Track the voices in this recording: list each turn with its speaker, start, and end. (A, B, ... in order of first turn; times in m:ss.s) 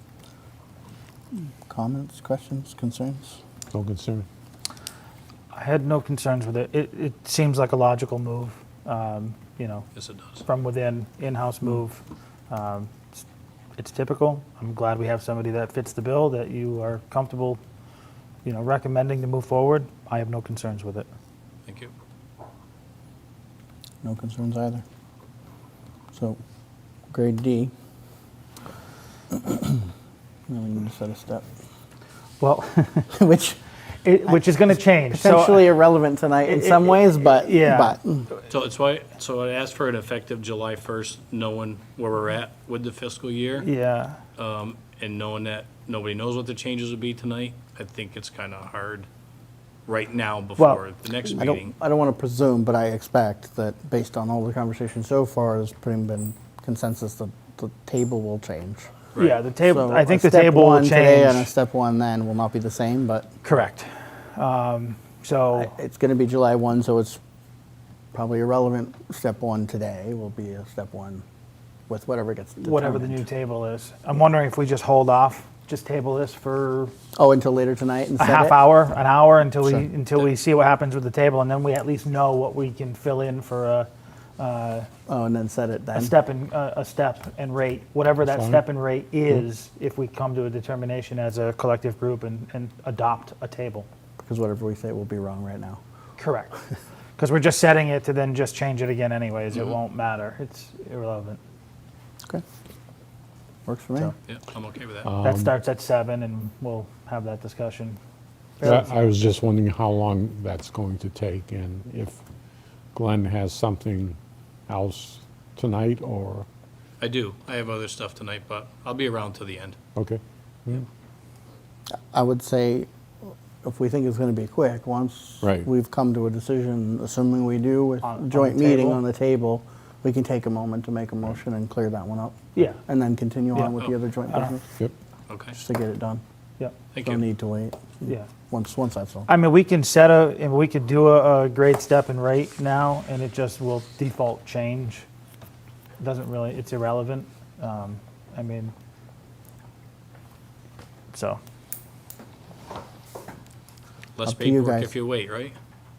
0:01.6-0:03.4 A
0:03.7-0:04.2 B
0:05.5-0:09.8 C
0:09.9-0:10.4 D
0:10.4-0:13.2 C
0:13.8-0:17.6 C
0:18.4-0:21.1 C
0:21.6-0:21.9 D
0:24.0-0:24.8 A
0:26.1-0:26.4 A
0:27.1-0:27.7 A
0:29.3-0:29.8 A
0:30.5-0:31.4 A
0:32.4-0:33.1 C
0:33.1-0:33.6 A
0:34.0-0:35.7 C
0:35.1-0:38.3 A
0:36.4-0:38.0 C
0:38.5-0:43.7 D
0:43.6-0:44.2 C
0:44.4-0:49.1 D
0:49.9-0:51.7 D
0:51.2-0:58.9 A
0:59.1-0:59.4 D
0:59.2-1:01.5 C
0:59.6-1:03.3 A
1:03.4-1:05.7 C
1:05.5-1:07.2 A
1:08.1-1:11.2 A
1:11.9-1:13.2 A
1:12.6-1:16.9 C
1:17.1-1:18.6 A
1:18.2-1:24.9 C
1:25.1-1:26.1 A
1:25.9-1:33.9 C
1:28.2-1:28.6 B
1:34.2-1:35.8 A
1:36.2-1:36.6 C
1:37.2-1:41.4 C
1:43.6-1:44.1 A
1:44.3-1:45.1 D
1:45.0-1:45.5 B
1:45.2-1:48.0 C
1:48.6-1:48.9 C
1:48.6-1:52.2 B
1:52.9-1:56.5 B
1:57.0-1:59.8 D
2:00.0-2:00.9 B
2:02.1-2:14.6 A
2:05.4-2:05.7 B
2:08.0-2:09.0 C
2:12.5-2:12.8 C
2:15.3-2:15.6 D
2:15.5-2:16.2 A
2:16.9-2:17.2 D
2:17.0-2:19.3 A
2:19.3-2:25.0 C
2:26.0-2:28.7 C
2:31.1-2:31.4 C
2:34.2-2:35.6 D
2:34.2-2:34.9 A